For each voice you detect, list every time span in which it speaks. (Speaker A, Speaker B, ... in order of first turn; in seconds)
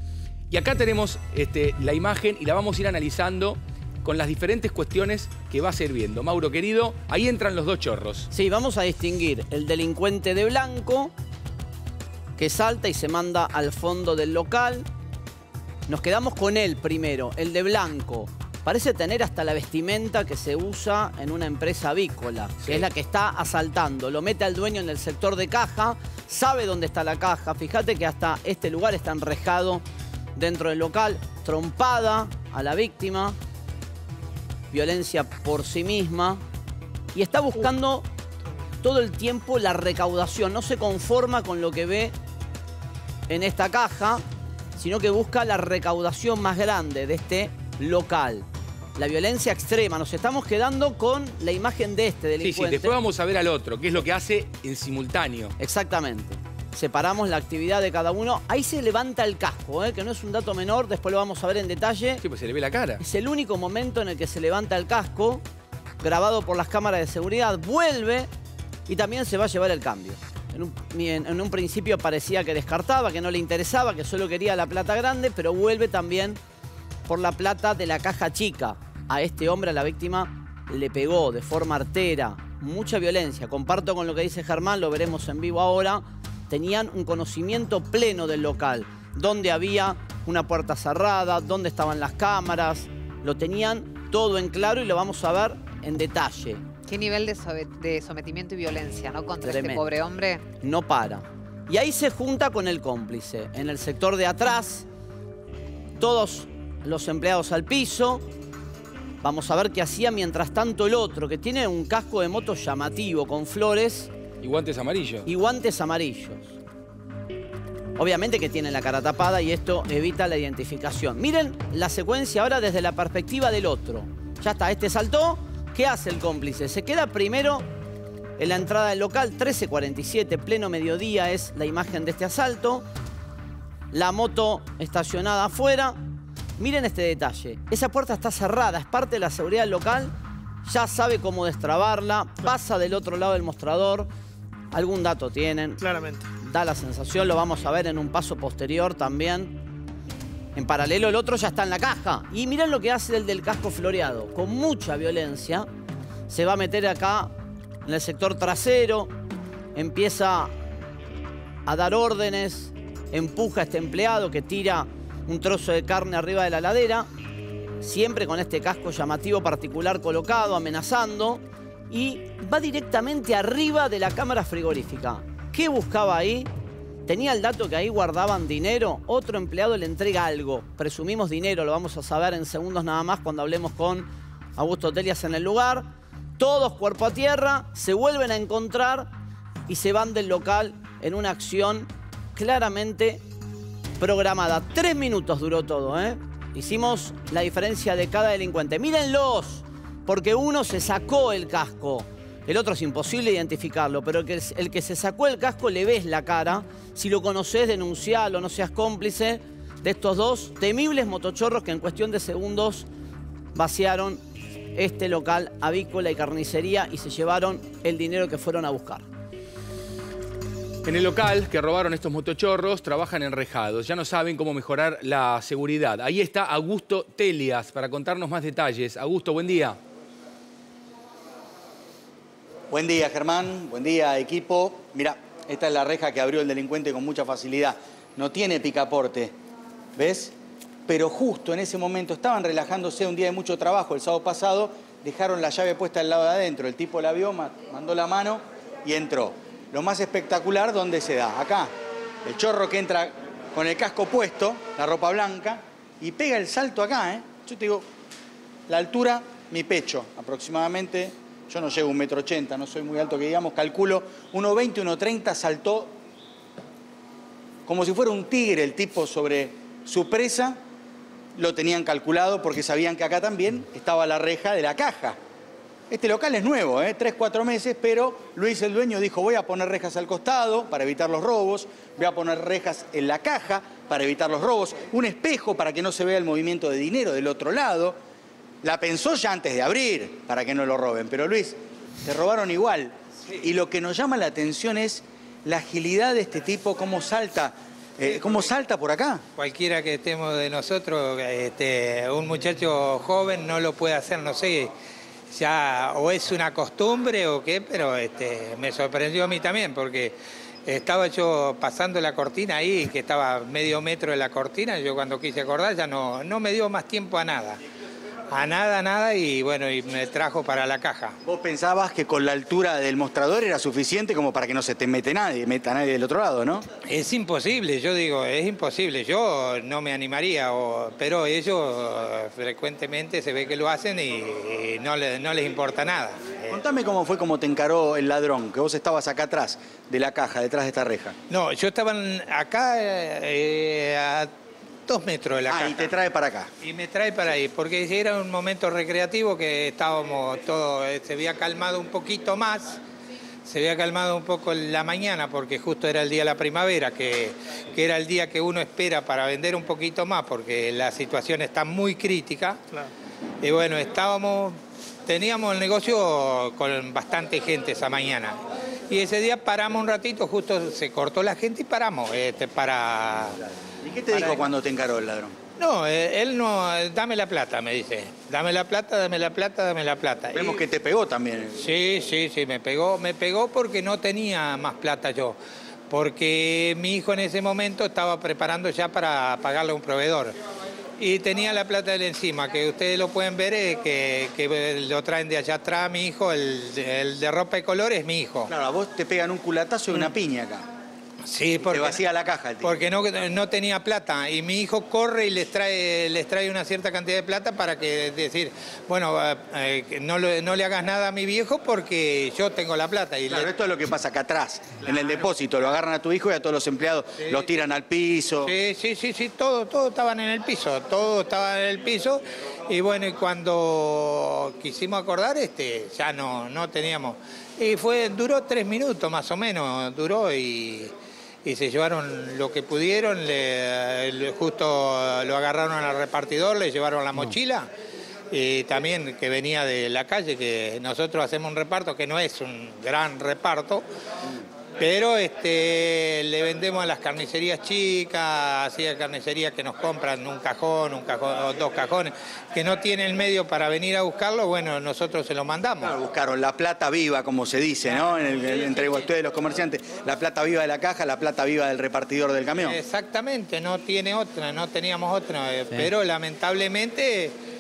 Speaker A: 0.5-8.3, 52.4-55.5, 62.2-63.0, 114.4-115.3, 220.8-229.8
Speaker B: 8.3-11.1, 12.4-14.9, 15.9-29.8, 30.3-33.4, 34.7-36.4, 37.1-38.0, 38.8-42.1, 43.3-44.2, 44.8-53.0, 55.6-62.2, 63.0-65.4, 66.0-68.3, 68.9-76.4, 77.1-96.6, 99.4-99.9, 100.6-104.9, 106.0-108.2, 109.2-114.1, 115.2-116.6, 118.0-127.7, 128.4-132.8, 133.9-136.0, 136.6-140.1, 140.6-144.1, 144.7-149.6, 150.5-155.7, 156.3-157.3, 157.8-159.1, 159.8-160.5, 161.7-167.1, 167.8-176.5, 177.1-189.1, 189.7-193.2, 194.0-212.9, 213.5-214.2, 214.8-219.1
Speaker C: 96.8-100.5
Speaker D: 232.7-239.3, 240.0-240.3, 240.9-251.7, 252.3-257.9, 258.7-265.9, 267.6-270.6, 271.4-275.2, 275.9-288.0, 288.6-299.2, 321.2-326.6, 336.5-341.1, 345.5-346.5, 373.8-375.3, 380.3-381.6, 398.5-400.7, 401.7-402.8, 413.3-418.5, 455.8-462.8
Speaker E: 299.4-304.7, 305.3-317.6, 318.3-321.1, 326.8-336.6, 341.3-344.3, 344.9-345.9, 346.6-352.8, 353.4-362.6, 363.4-373.4, 374.1-374.5, 375.6-380.6, 381.6-385.4, 385.9-390.3, 391.0-398.5, 401.2-402.0, 402.6-413.5, 418.4-430.9, 431.4-437.7, 438.3-443.8, 444.8-455.9, 462.6-467.3